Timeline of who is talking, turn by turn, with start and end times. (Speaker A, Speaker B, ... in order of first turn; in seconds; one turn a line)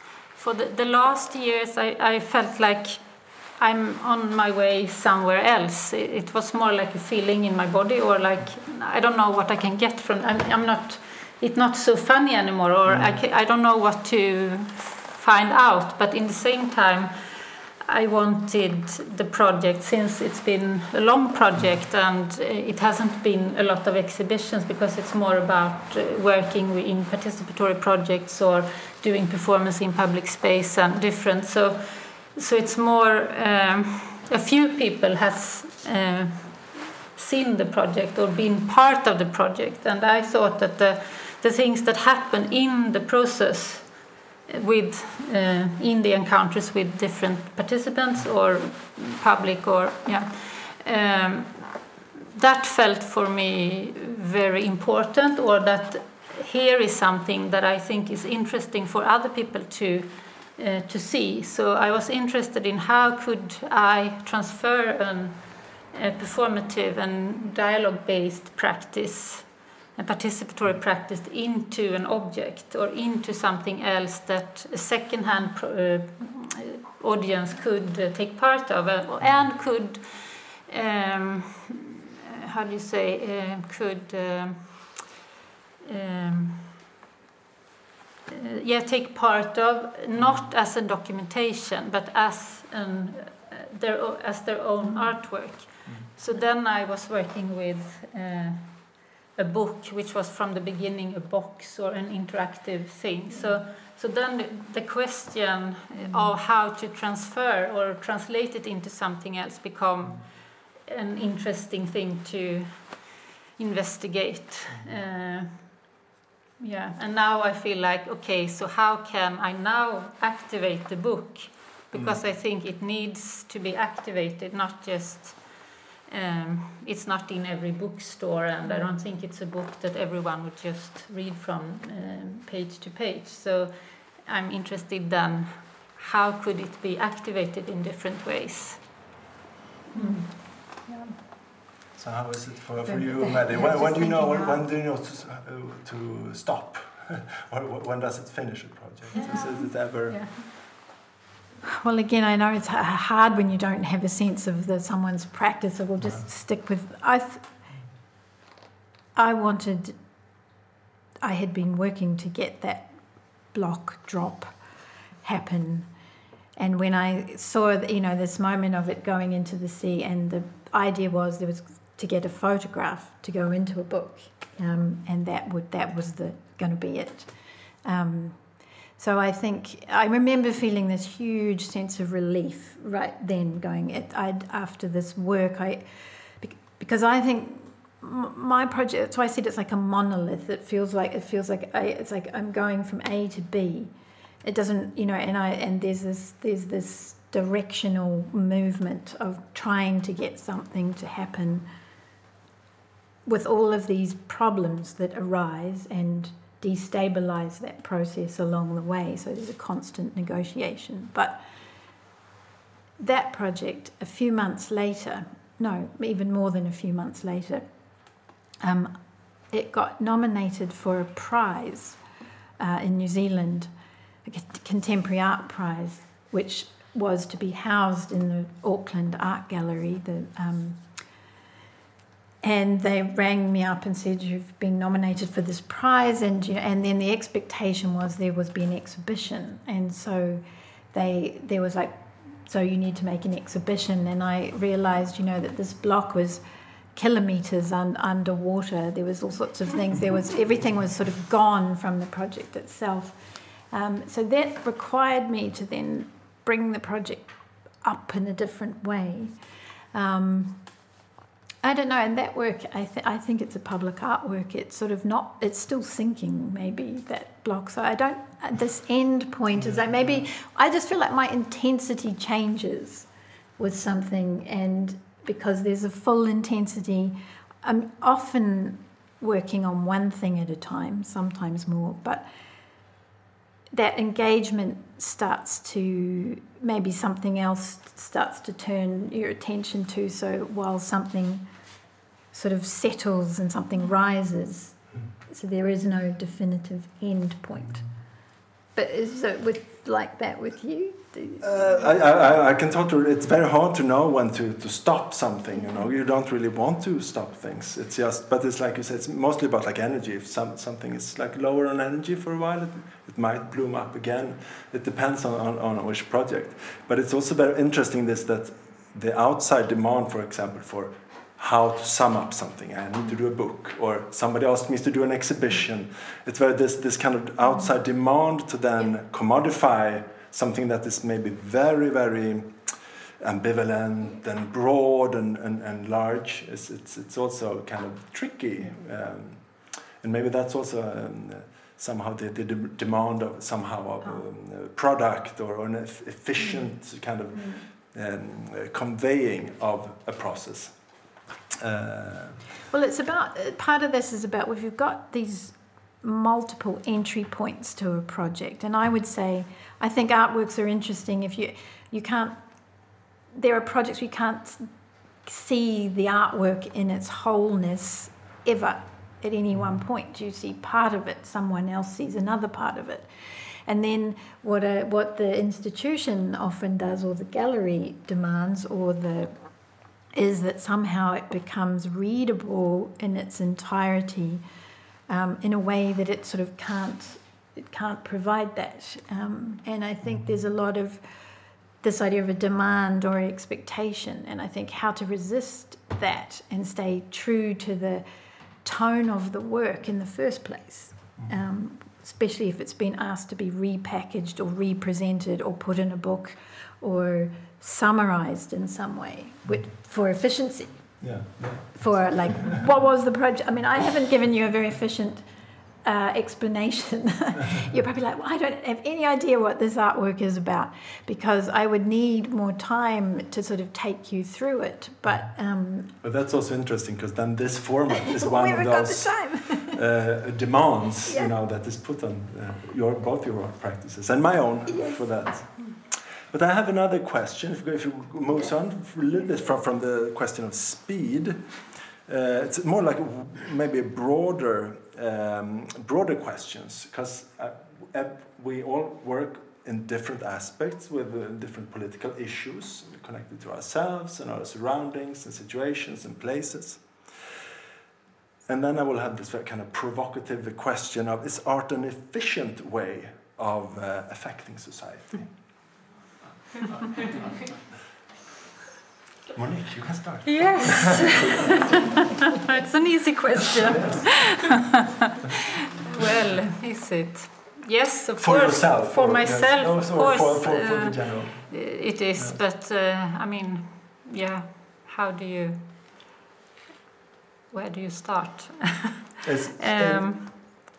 Speaker A: 0.3-17.1
Speaker B: 12.9-13.2
Speaker A: 17.9-85.0
Speaker A: 85.8-86.8
Speaker A: 88.3-110.2
Speaker B: 90.2-90.5
Speaker C: 94.8-95.1
Speaker C: 106.0-106.3
Speaker A: 110.8-115.9
Speaker A: 116.6-138.8
Speaker C: 139.9-140.2
Speaker B: 142.0-150.3
Speaker C: 142.8-144.6
Speaker A: 149.1-150.3
Speaker C: 151.7-157.5
Speaker C: 159.2-160.0
Speaker C: 161.2-164.6
Speaker C: 165.2-165.9
Speaker C: 166.6-185.8
Speaker C: 186.4-193.9
Speaker C: 194.4-201.7
Speaker C: 203.3-211.4
Speaker C: 213.0-217.7
Speaker C: 218.6-222.0
Speaker C: 222.6-223.7
Speaker C: 224.2-230.8
Speaker C: 232.4-246.4
Speaker C: 246.9-253.2
Speaker C: 253.7-259.3
Speaker C: 259.9-260.7
Speaker C: 261.6-282.3
Speaker B: 269.6-270.2
Speaker C: 283.7-291.5
Speaker C: 292.3-297.9
Speaker C: 298.8-302.2
Speaker B: 301.4-352.4
Speaker C: 352.7-362.4
Speaker C: 363.3-364.7
Speaker C: 365.2-373.1
Speaker C: 373.7-379.4
Speaker C: 380.1-384.4
Speaker C: 385.1-391.0
Speaker C: 391.8-398.0
Speaker C: 398.6-411.0
Speaker B: 411.0-412.6
Speaker C: 411.8-415.2
Speaker C: 415.8-425.9
Speaker B: 426.0-441.4
Speaker C: 428.1-429.8
Speaker C: 434.7-435.1
Speaker B: 442.1-457.2
Speaker B: 458.5-465.3
Speaker B: 469.3-471.6
Speaker A: 470.3-471.8
Speaker A: 472.4-474.8
Speaker B: 473.7-474.3
Speaker A: 475.8-485.6
Speaker B: 478.2-482.4
Speaker A: 487.5-489.0
Speaker B: 489.2-490.4
Speaker A: 489.6-490.3